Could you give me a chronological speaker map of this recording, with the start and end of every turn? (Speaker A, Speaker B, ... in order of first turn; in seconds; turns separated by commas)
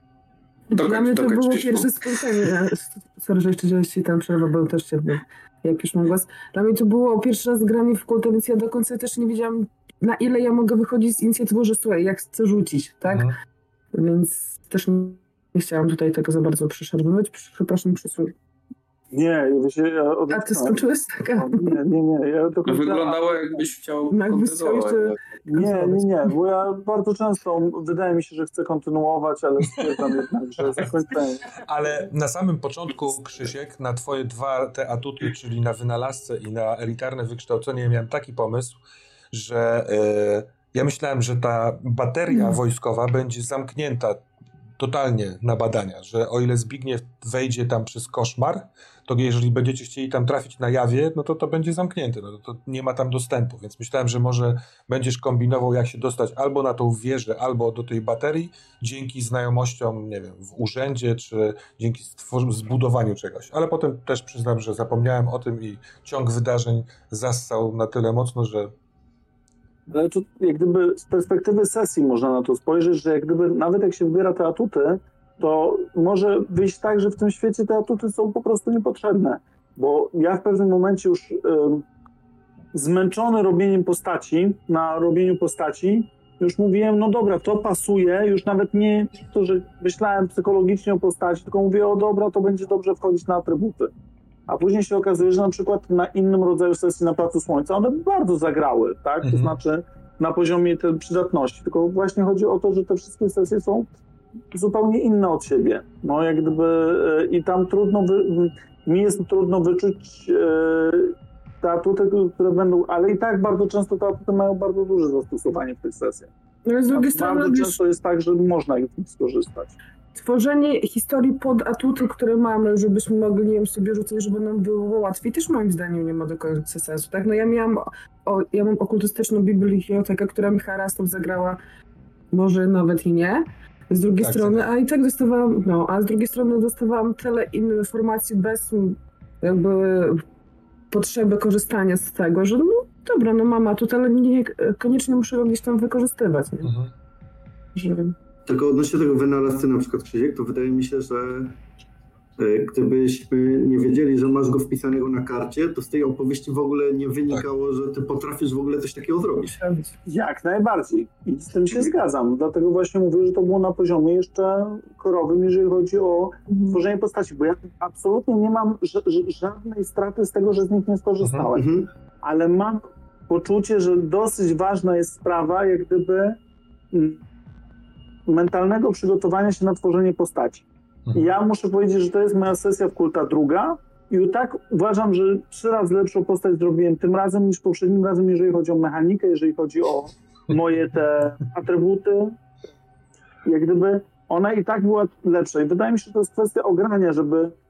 Speaker A: 0.7-13.3, Speaker B: 0.7-2.5, Speaker C: 13.1-13.3, Speaker A: 13.9-18.3, Speaker D: 19.1-20.8, Speaker A: 20.3-21.8, Speaker D: 21.4-23.7, Speaker B: 22.7-25.2, Speaker A: 24.1-26.3, Speaker D: 25.5-31.6, Speaker C: 31.6-38.8, Speaker C: 39.3-44.2, Speaker A: 42.3-42.6, Speaker C: 44.8-68.7, Speaker D: 69.9-81.8, Speaker D: 82.7-93.9, Speaker D: 94.5-103.9, Speaker C: 99.2-99.5, Speaker D: 104.5-116.3, Speaker A: 116.7-117.8, Speaker D: 116.9-119.8, Speaker A: 120.2-131.6, Speaker A: 132.3-140.2, Speaker C: 134.2-134.7, Speaker A: 140.9-146.7, Speaker C: 146.6-146.9, Speaker A: 147.8-148.1, Speaker E: 148.5-151.6, Speaker E: 152.4-159.6, Speaker A: 159.6-159.9, Speaker D: 160.1-176.4, Speaker A: 166.5-166.8, Speaker C: 171.2-171.5, Speaker E: 171.5-171.9, Speaker D: 176.9-177.2, Speaker D: 178.3-192.4, Speaker D: 193.4-197.5